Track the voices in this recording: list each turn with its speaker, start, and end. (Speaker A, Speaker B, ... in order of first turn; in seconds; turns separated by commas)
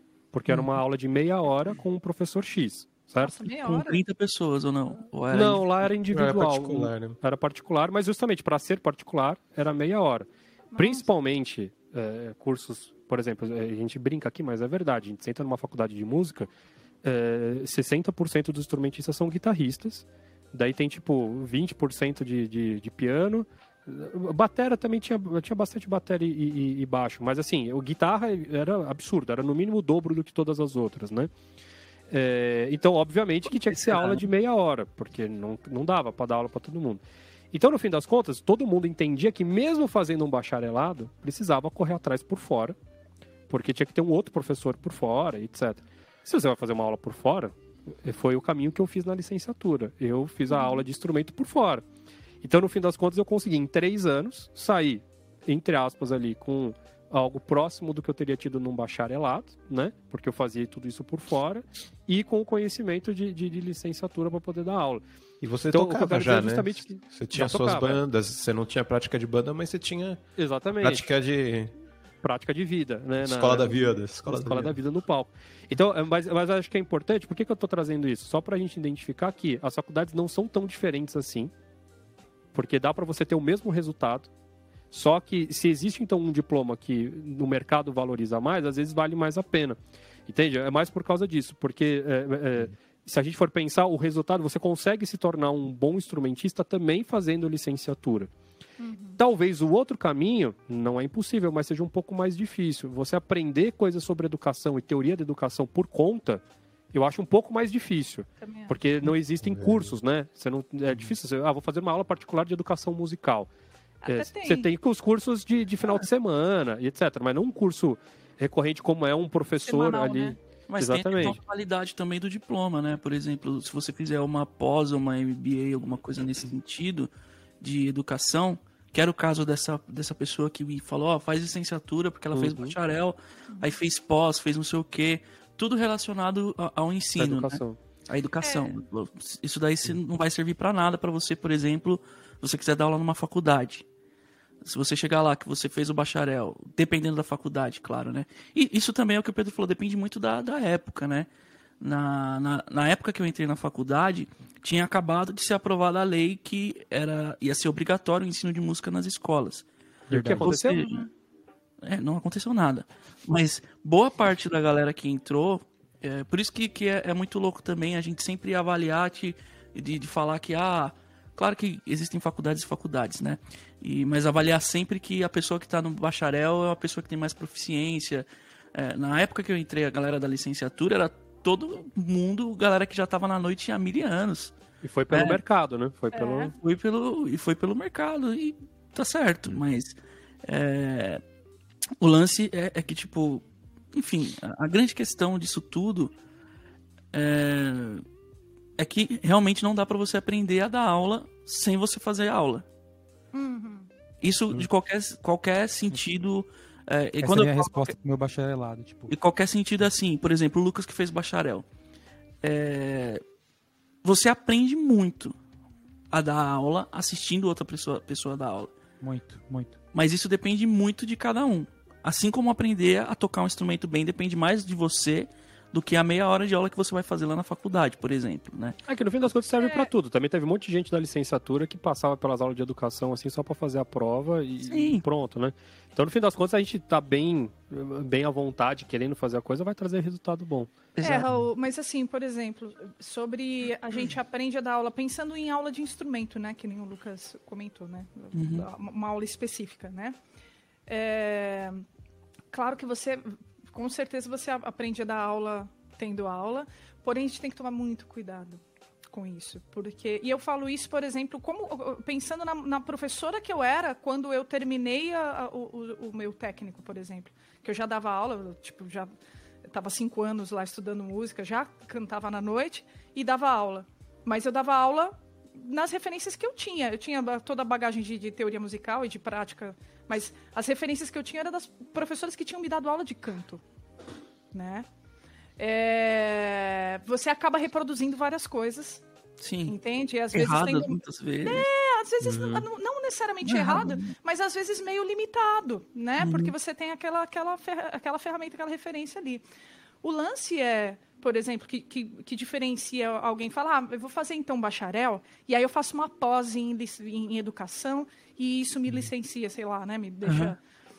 Speaker A: 0.3-3.3, Speaker B: 3.2-4.0, Speaker C: 3.6-5.7, Speaker A: 5.3-16.5, Speaker D: 6.1-7.2, Speaker B: 10.7-11.1, Speaker A: 17.0-31.3, Speaker A: 32.1-37.0, Speaker C: 33.7-34.2, Speaker A: 37.5-42.8, Speaker A: 43.5-51.8, Speaker B: 50.5-50.8, Speaker A: 52.4-65.0, Speaker D: 65.4-70.2, Speaker A: 65.7-68.0, Speaker A: 70.4-71.0, Speaker D: 70.8-71.7, Speaker A: 72.2-81.5, Speaker D: 73.2-74.8, Speaker A: 82.5-84.3, Speaker A: 84.9-98.3, Speaker B: 98.8-99.2, Speaker A: 99.2-106.4, Speaker A: 106.9-113.5, Speaker B: 108.4-108.7, Speaker D: 109.5-109.9, Speaker B: 114.0-114.7, Speaker A: 114.1-121.4, Speaker B: 119.7-120.4, Speaker C: 120.7-127.1, Speaker C: 127.6-143.8, Speaker A: 132.3-132.8, Speaker A: 137.2-137.8, Speaker B: 138.4-138.8, Speaker C: 144.6-151.3, Speaker C: 151.8-159.7, Speaker A: 160.1-160.9, Speaker E: 160.1-160.5, Speaker C: 160.4-161.0, Speaker C: 161.8-184.5, Speaker A: 184.8-186.5, Speaker C: 185.1-185.4, Speaker B: 186.1-186.5, Speaker C: 186.6-191.2, Speaker C: 192.0-196.1, Speaker C: 197.1-198.0, Speaker C: 198.8-202.6, Speaker B: 203.3-203.9, Speaker C: 204.2-207.9, Speaker E: 207.2-209.1, Speaker C: 209.1-211.6, Speaker C: 212.4-213.2, Speaker C: 214.0-215.3, Speaker C: 216.1-218.7, Speaker E: 219.0-219.7, Speaker C: 219.9-228.8, Speaker A: 228.9-240.7, Speaker B: 229.6-229.9, Speaker C: 234.6-235.0, Speaker C: 241.0-241.3, Speaker B: 241.0-250.2, Speaker C: 248.3-248.7, Speaker B: 250.9-251.8, Speaker B: 252.5-269.1, Speaker B: 269.6-283.6, Speaker B: 284.5-284.9, Speaker B: 285.6-289.0, Speaker C: 289.4-289.8, Speaker B: 289.6-299.4, Speaker C: 290.3-291.7, Speaker C: 293.4-294.1, Speaker C: 296.2-296.5, Speaker B: 300.0-310.6, Speaker C: 310.2-310.5